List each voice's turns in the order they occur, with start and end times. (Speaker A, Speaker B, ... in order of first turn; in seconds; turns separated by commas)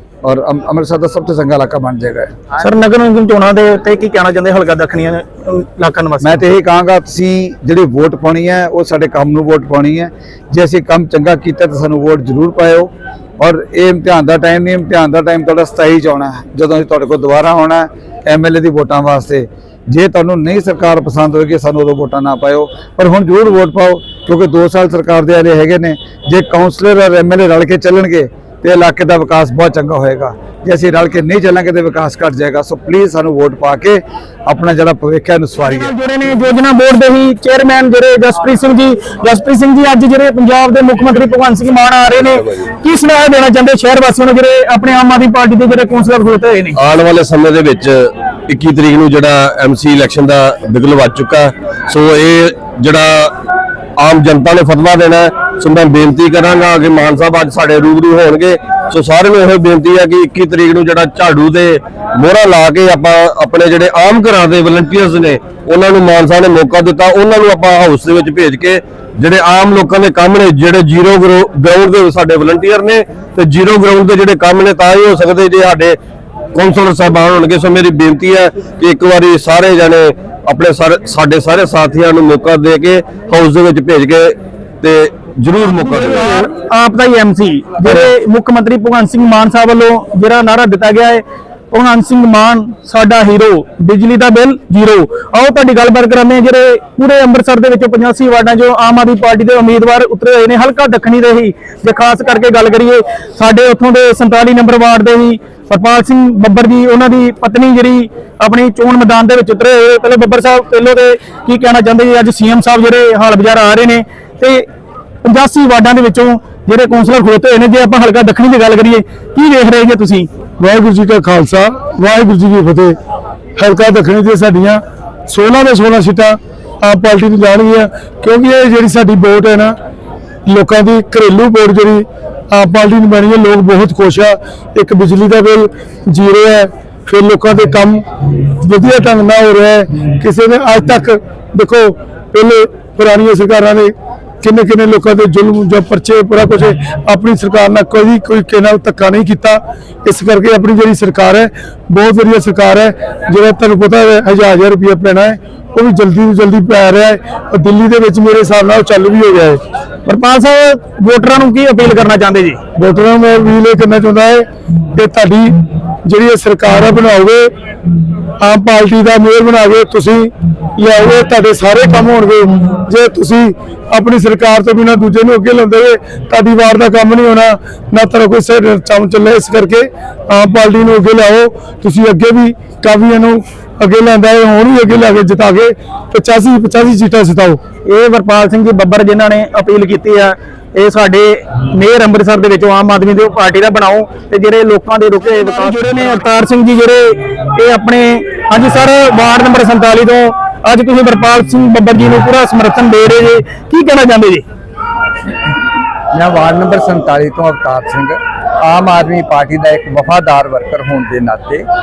Speaker A: 0.2-2.3, Speaker B: 2.6-6.4, Speaker A: 6.2-35.9, Speaker B: 35.6-46.8, Speaker C: 46.8-53.4, Speaker C: 54.0-76.0, Speaker C: 76.5-86.5, Speaker B: 85.8-114.7, Speaker C: 87.8-88.1, Speaker B: 115.2-120.3, Speaker D: 120.6-123.0, Speaker D: 123.6-129.8, Speaker D: 130.5-159.6, Speaker B: 160.1-162.6, Speaker D: 162.8-164.4, Speaker D: 164.9-165.5, Speaker D: 166.0-167.5, Speaker D: 168.4-187.6, Speaker B: 187.8-204.4, Speaker E: 206.1-211.6